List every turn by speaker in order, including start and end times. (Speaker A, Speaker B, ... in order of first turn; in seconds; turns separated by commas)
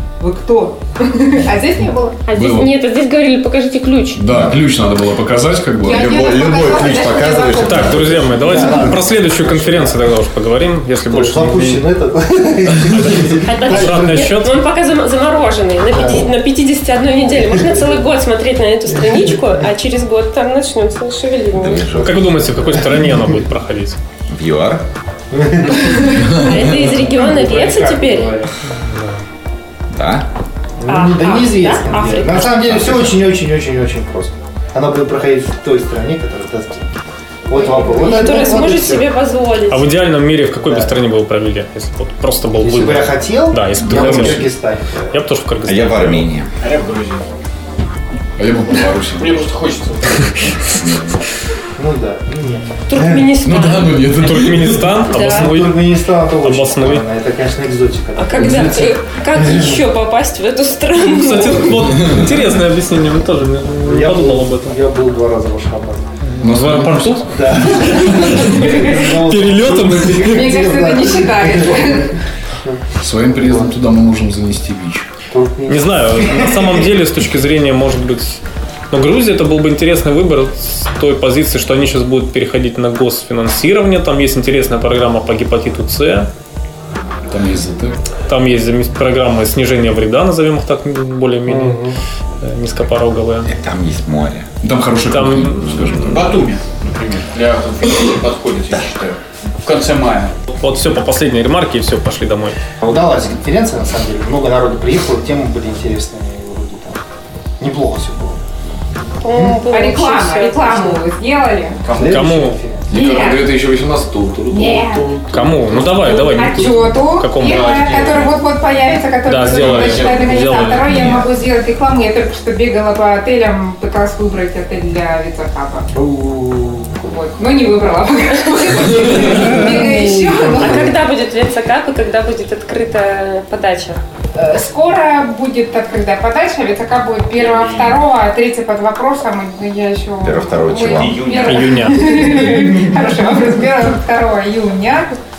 Speaker A: 0.2-2.3, Speaker B: 2.3-4.2, Speaker C: 2.4-2.8, Speaker C: 4.2-6.1, Speaker D: 4.3-4.6, Speaker A: 5.8-8.5, Speaker D: 5.9-8.3, Speaker E: 7.6-11.8, Speaker F: 8.3-10.0, Speaker F: 11.1-14.3, Speaker E: 12.9-14.6, Speaker B: 13.4-21.9, Speaker F: 15.9-16.3, Speaker F: 19.1-19.3, Speaker D: 21.6-22.8, Speaker E: 22.0-24.0, Speaker D: 24.3-24.9, Speaker F: 25.3-28.5, Speaker B: 26.2-28.4, Speaker E: 28.9-29.2, Speaker D: 29.9-30.3, Speaker F: 30.8-36.9, Speaker B: 30.9-32.6, Speaker D: 32.4-33.2, Speaker F: 37.5-39.1, Speaker B: 37.5-39.9, Speaker E: 39.7-44.5, Speaker F: 40.6-40.9, Speaker F: 42.5-45.2, Speaker C: 43.8-44.5, Speaker E: 45.1-46.3, Speaker D: 45.7-46.5, Speaker G: 46.6-47.2, Speaker C: 48.4-49.5, Speaker G: 49.2-50.8, Speaker F: 51.8-53.3, Speaker B: 52.9-54.1, Speaker C: 53.4-55.0, Speaker E: 54.1-55.8, Speaker B: 55.1-55.6, Speaker F: 55.1-58.9, Speaker E: 56.4-57.0, Speaker B: 58.2-62.1, Speaker E: 61.1-64.8, Speaker F: 63.8-66.1, Speaker E: 66.2-67.4, Speaker C: 66.4-68.0, Speaker F: 67.3-72.1, Speaker A: 68.2-69.0, Speaker E: 68.3-70.5, Speaker A: 70.2-72.1, Speaker F: 72.6-73.7, Speaker C: 73.0-75.1, Speaker F: 75.3-76.9, Speaker E: 75.7-86.3, Speaker C: 87.3-88.0, Speaker E: 88.3-91.8, Speaker F: 91.5-92.0, Speaker E: 92.4-93.5, Speaker D: 93.5-94.5, Speaker C: 94.6-96.2, Speaker E: 95.1-96.2, Speaker G: 96.0-100.3, Speaker E: 100.5-102.6, Speaker F: 102.8-107.0, Speaker F: 107.6-108.4, Speaker B: 109.2-111.0, Speaker F: 109.3-109.6, Speaker A: 109.7-111.8, Speaker F: 111.9-112.9, Speaker E: 112.0-112.6, Speaker C: 112.9-116.8, Speaker A: 112.9-113.6, Speaker A: 114.5-115.1, Speaker E: 115.3-117.8, Speaker A: 116.0-125.9, Speaker G: 117.4-118.4, Speaker E: 119.2-121.1, Speaker G: 119.5-121.2, Speaker F: 125.9-127.2, Speaker A: 127.1-130.8, Speaker F: 129.3-129.6, Speaker B: 129.5-134.0, Speaker A: 134.4-145.2, Speaker G: 137.3-138.0, Speaker D: 140.2-141.4, Speaker G: 140.8-142.1, Speaker E: 141.4-142.8